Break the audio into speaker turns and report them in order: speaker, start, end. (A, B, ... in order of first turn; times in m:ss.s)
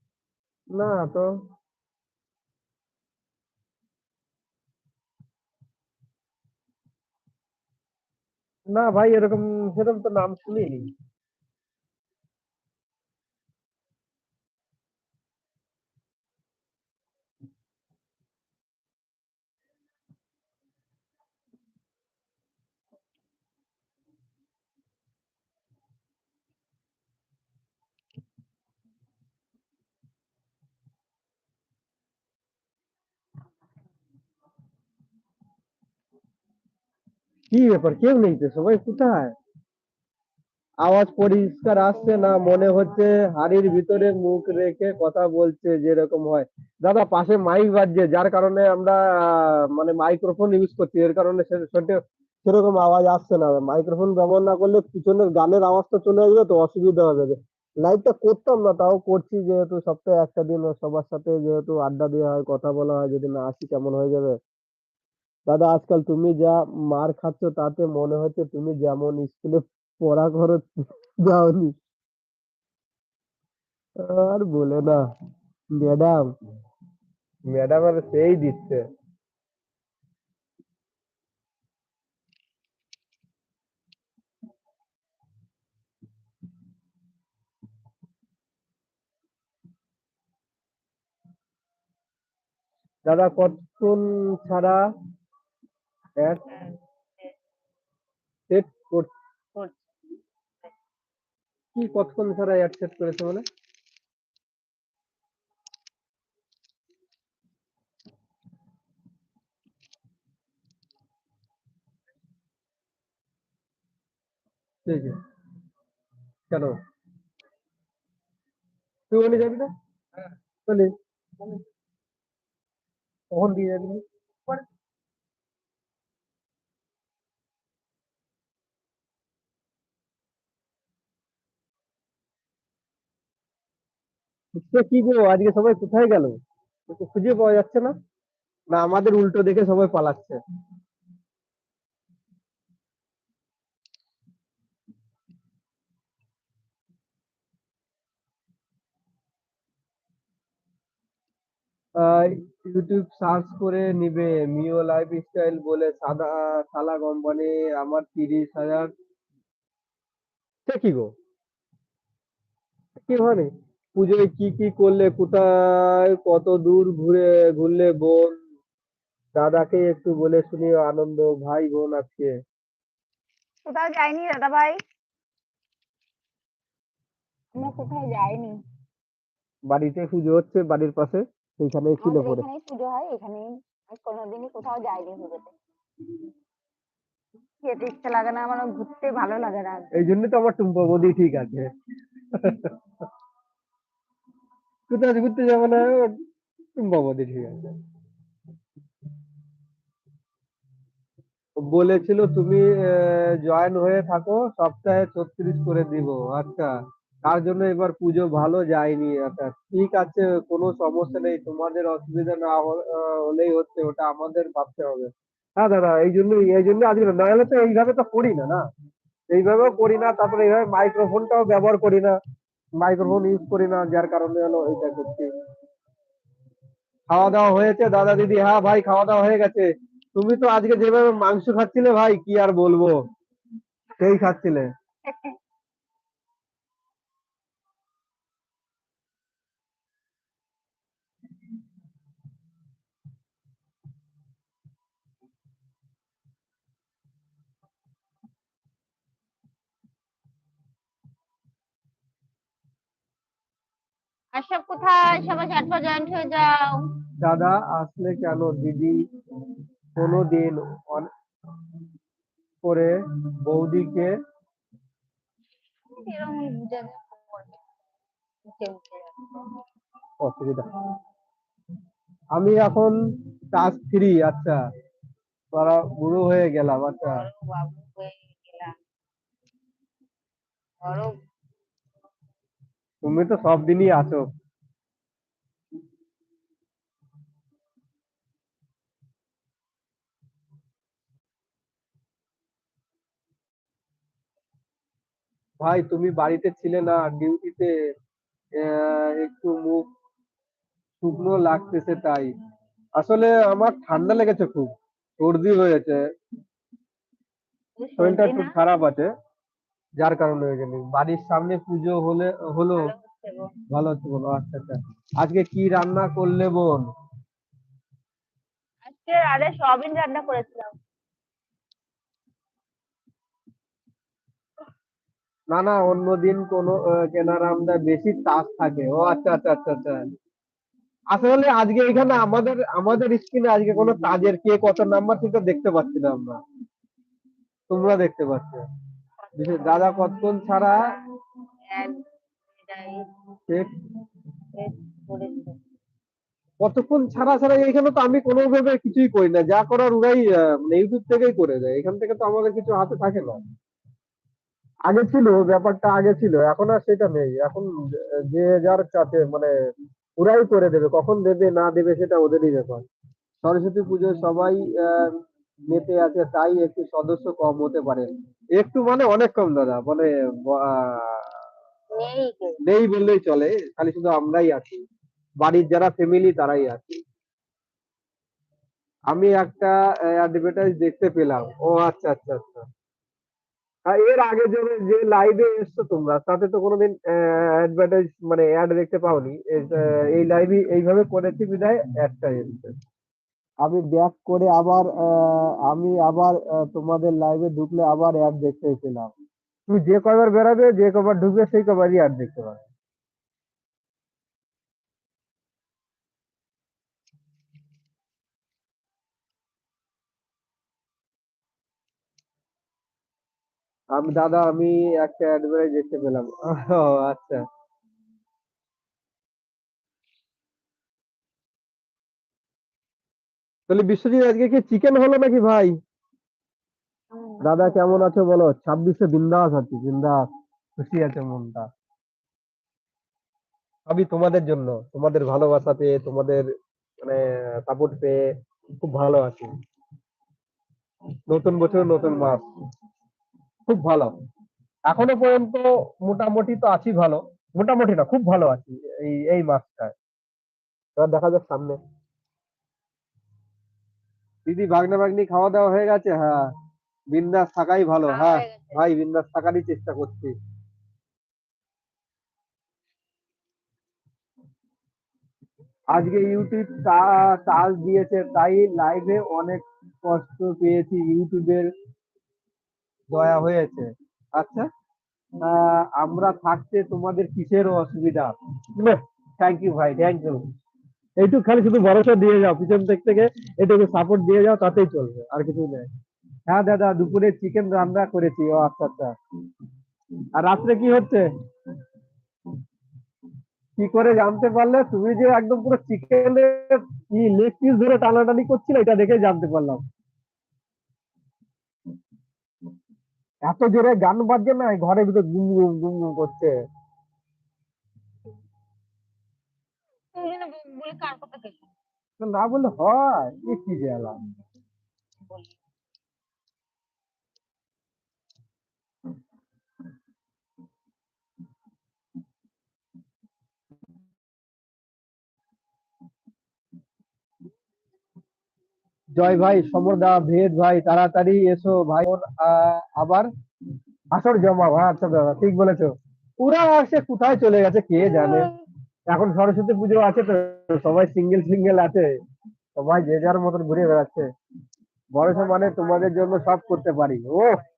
0:00.7-0:01.3 A
0:08.7-0:10.9 A
0:37.5-0:39.3 A
0:40.8-1:04.4 A
0:42.0-0:43.0 B
1:05.5-1:11.8 A
1:14.0-1:15.0 A
1:15.8-1:16.3 A
1:17.5-1:18.8 A
1:33.1-1:34.8 A
1:36.5-1:37.3 B
1:38.5-1:39.1 A
1:39.6-1:39.9 B
1:41.8-1:43.4 A
1:54.9-1:55.2 A
1:56.5-1:56.8 A
1:59.1-1:59.7 A
2:00.6-2:00.9 A
2:03.3-2:04.0 A
2:14.6-2:17.9 A
2:18.7-2:20.4 A
2:32.0-2:38.9 A
2:40.7-2:41.1 A
2:43.1-2:48.4 A
2:49.4-2:52.3 A
2:53.7-2:54.8 B
2:57.5-2:58.6 B
2:59.7-3:02.4 A
3:02.0-3:05.5 B
3:07.6-3:09.9 B
3:09.9-3:11.7 A
3:12.3-3:12.8 A
3:14.9-3:16.2 A
3:16.8-3:17.8 A
3:21.7-3:26.7 A
3:27.2-3:38.6 A
3:39.3-3:42.2 A
3:42.8-3:45.3 A
3:47.1-3:53.0 A
3:54.0-3:54.7 A
3:55.1-3:55.4 B
4:14.3-4:16.9 B
4:17.2-4:19.1 A
4:20.0-4:21.1 A
4:22.6-4:24.1 A
4:26.0-4:27.6 B
4:28.5-4:29.6 B
4:30.2-4:30.7 A
4:32.4-4:33.0 A
4:33.5-4:34.6 A
4:35.5-4:37.2 A
4:37.0-4:38.7 B
4:40.8-4:41.1 B
4:43.0-4:44.2 A
4:55.6-4:57.7 A
4:58.6-4:59.8 A
5:01.0-5:02.3 A
5:03.0-5:06.0 A
5:07.8-5:08.6 B
5:08.0-5:09.1 A
5:10.0-5:12.9 A
5:12.8-5:13.5 B
5:13.7-5:16.9 A
5:18.8-5:20.7 B
5:25.5-5:30.0 A
5:31.1-5:36.4 A
5:37.7-5:38.6 A
5:39.3-5:39.8 B
5:39.4-5:40.8 A
5:41.7-5:42.0 B
5:42.5-5:43.1 B
5:44.5-5:45.6 B
5:46.6-5:53.4 A
5:54.9-5:57.7 A
5:58.3-5:59.5 A
6:00.2-6:02.8 A
6:03.4-6:05.1 A
6:05.7-6:11.3 A
6:12.0-6:12.6 B
6:12.6-6:14.8 A
6:15.4-6:17.0 A
6:19.1-6:22.6 A
6:23.9-6:32.7 A
6:33.6-6:39.1 A
6:39.7-6:42.6 A
6:53.9-6:57.4 A
7:03.7-7:05.7 A
7:07.1-7:08.0 B
7:07.4-7:10.2 A
7:10.8-7:11.7 A
7:13.9-7:16.4 A
7:17.0-7:18.2 A
7:18.8-7:19.5 A
7:21.3-7:22.4 A
7:23.7-7:24.1 A
7:24.9-7:29.9 A
7:31.0-7:31.8 A
7:34.5-7:36.4 A
7:37.1-7:40.3 A
7:38.1-7:38.8 B
7:45.9-7:51.7 A
7:53.1-7:54.7 A
7:55.4-8:00.4 A
8:01.2-8:05.9 A
8:06.5-8:09.1 A
8:10.4-8:11.3 A
8:13.8-8:19.8 A
8:23.5-8:26.5 A
8:30.1-8:31.6 B
8:32.2-8:34.2 A
8:35.3-8:35.6 B
8:49.2-8:53.3 A
8:54.1-8:58.5 A
8:58.0-8:58.6 B
8:59.1-9:02.1 A
9:02.8-9:04.3 A
9:05.1-9:07.6 A
9:05.3-9:06.9 B